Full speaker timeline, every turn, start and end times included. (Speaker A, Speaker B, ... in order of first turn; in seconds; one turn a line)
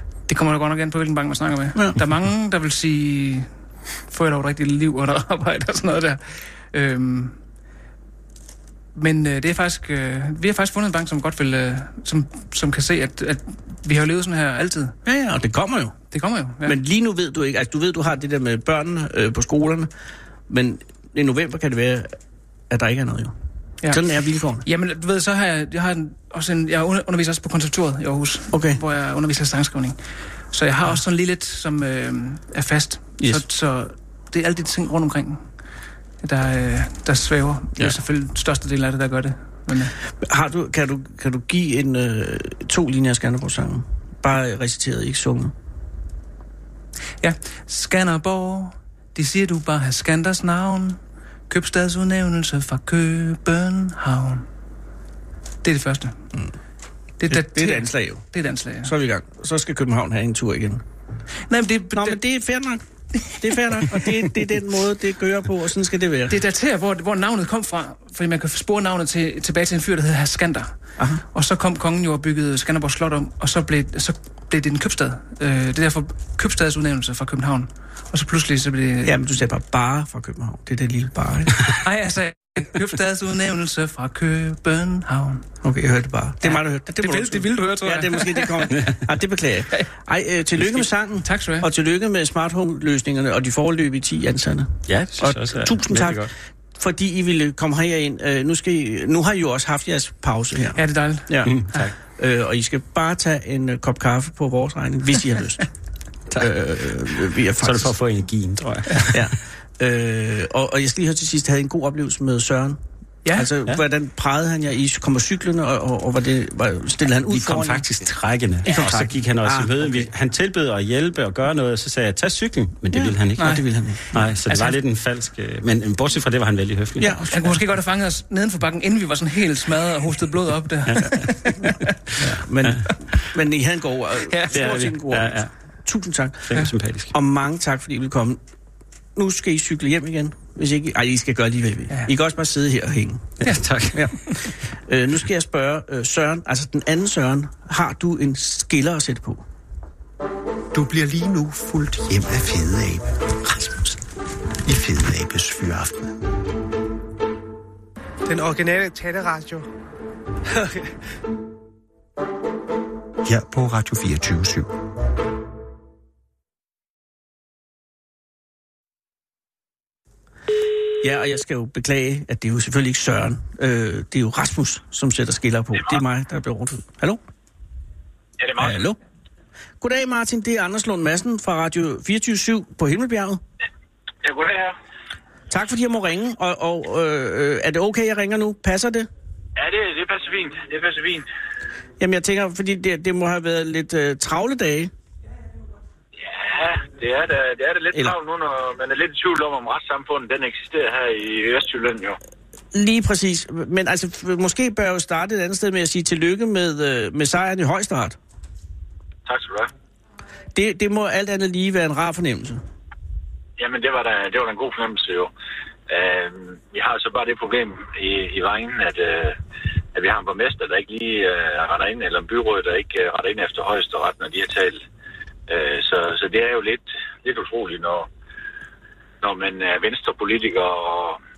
Speaker A: 0.3-3.5
Speaker B: 1.8-2.0
Speaker A: 4.1-6.2
Speaker A: 6.7-7.4
Speaker A: 8.9-15.0
Speaker B: 15.0-16.0
Speaker A: 16.1-16.8
Speaker B: 16.6-19.9
Speaker B: 20.5-22.1
Speaker B: 22.7-23.4
Speaker B: 23.9-24.6
Speaker A: 24.6-30.0
Speaker B: 28.5-28.8
Speaker A: 30.5-35.5
Speaker A: 36.2-39.9
Speaker B: 40.2-45.5
Speaker A: 47.2-54.5
Speaker A: 55.6-56.2
Speaker A: 57.2-58.9
Speaker B: 57.3-58.2
Speaker B: 58.8-60.8
Speaker A: 61.5-62.2
Speaker B: 61.9-66.4
Speaker A: 66.3-79.2
Speaker B: 79.0-81.6
Speaker A: 81.8-85.5
Speaker B: 85.6-105.6
Speaker A: 86.4-88.8
Speaker A: 91.2-91.7
Speaker C: 94.9-96.3
Speaker A: 100.8-101.9
Speaker C: 101.5-101.9
Speaker C: 106.3-106.5
Speaker B: 106.4-108.0
Speaker C: 107.6-109.3
Speaker B: 109.1-112.8
Speaker B: 113.3-117.9
Speaker C: 117.3-123.6
Speaker B: 118.6-120.1
Speaker B: 122.9-124.0
Speaker C: 124.1-127.3
Speaker A: 124.5-124.8
Speaker B: 127.0-127.3
Speaker A: 127.3-131.8
Speaker C: 130.9-132.8
Speaker B: 132.2-138.4
Speaker A: 134.3-134.6
Speaker C: 134.5-135.5
Speaker C: 136.5-137.1
Speaker B: 139.1-149.4
Speaker C: 143.4-144.1
Speaker D: 150.7-154.0
Speaker D: 154.6-156.2
Speaker D: 163.2-164.7
Speaker B: 171.0-177.2
Speaker E: 178.4-178.9
Speaker B: 178.6-179.0
Speaker B: 179.8-183.4
Speaker E: 184.2-184.8
Speaker B: 185.5-189.1
Speaker E: 189.6-191.3
Speaker B: 192.0-194.9
Speaker E: 196.2-202.2
Speaker B: 202.7-208.2
Speaker E: 209.2-209.7
Speaker B: 210.5-212.6
Speaker E: 213.6-215.3
Speaker E: 215.9-219.4
Speaker E: 219.9-224.8
Speaker E: 225.5-228.1
Speaker E: 229.2-231.2